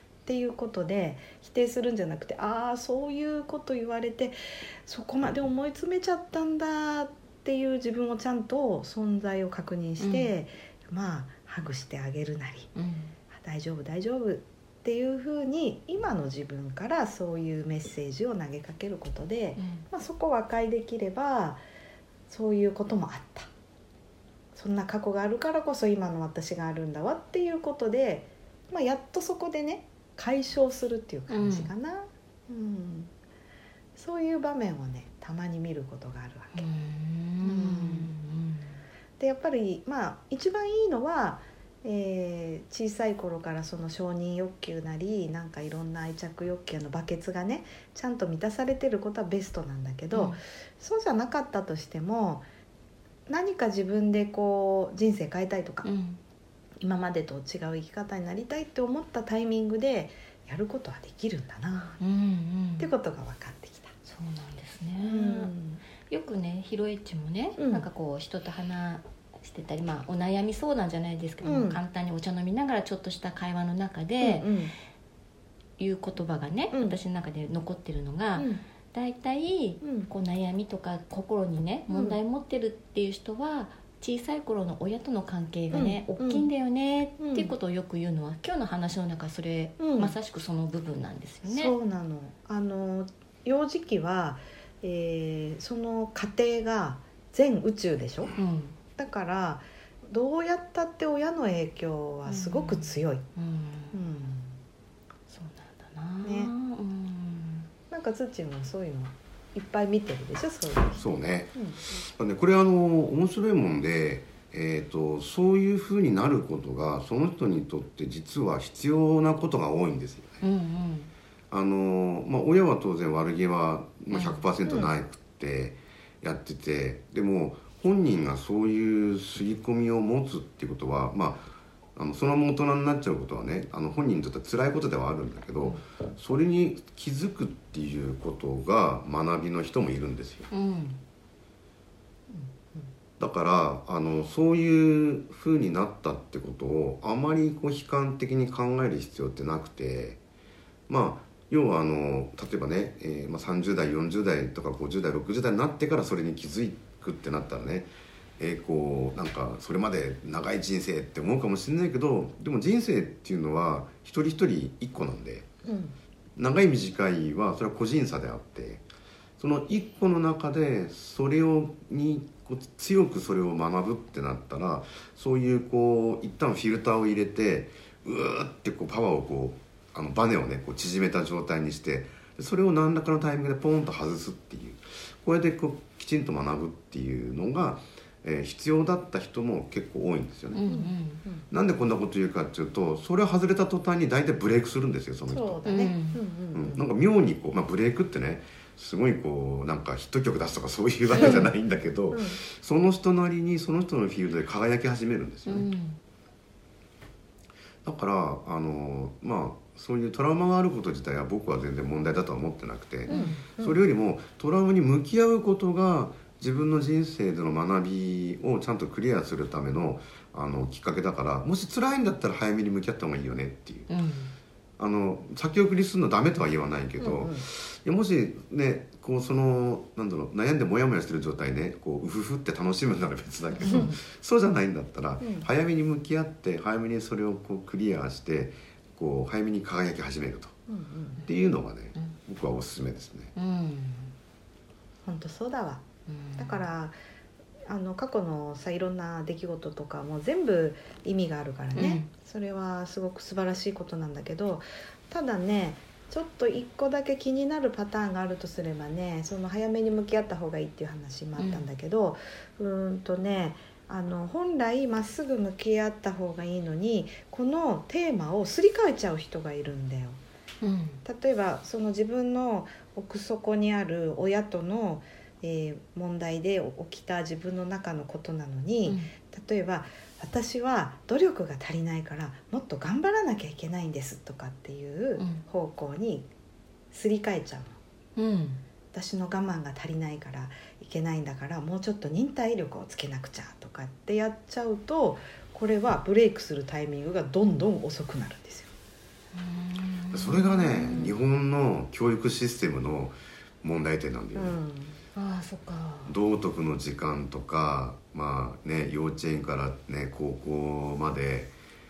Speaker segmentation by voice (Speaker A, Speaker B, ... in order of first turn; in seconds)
Speaker A: 0.2-12.7, 13.3-21.6, 22.3-23.5, 24.6-33.1, 34.0-36.7, 37.4-38.1, 39.2-52.5, 53.3-55.9, 56.8-62.0, 62.8-63.9, 65.0-65.8, 67.6-67.8, 71.4-71.8, 74.2-74.7, 76.7-77.0, 78.3-78.6, 79.8-80.1, 81.9-82.2, 85.7-86.5, 87.2-87.5, 89.8-90.1, 91.4-98.3, 99.0-103.2, 103.9-104.5, 106.2-106.5, 107.9-111.0, 124.7-124.9, 142.3-142.8, 165.6-165.9, 190.7-191.4, 195.3-196.8, 202.1-202.4, 213.1-213.8, 227.0-227.4, 233.7-233.9, 235.2-235.5, 240.7-241.2, 245.0-245.8, 246.3-246.9, 247.7-270.2, 271.0-286.3, 286.9-287.8, 288.9-298.7, 304.3-305.0
Speaker B: 10.0-10.3, 12.7-13.1, 19.6-19.8, 31.3-31.7, 36.5-38.7, 50.1-50.4, 55.8-56.2, 62.0-62.9, 64.0-65.5, 66.1-74.5, 75.8-91.7, 98.3-98.8, 102.3-104.0, 105.3-107.7, 120.4-121.1, 124.1-124.4, 140.5-141.0, 190.5-191.2, 195.6-196.2, 205.5-206.0, 213.1-213.4, 223.9-224.3, 243.3-244.1, 246.1-246.6, 251.7-252.1, 261.4-261.6, 270.6-271.0, 288.1-288.6, 299.3-301.1, 305.1-306.1
Speaker C: 110.9-120.4, 121.5-140.5, 143.2-150.2, 150.9-165.5, 166.3-168.8, 169.4-190.6, 191.5-195.6, 196.5-205.7, 207.8-223.9, 224.8-240.5, 241.2-243.3, 300.1-304.6, 306.1-311.5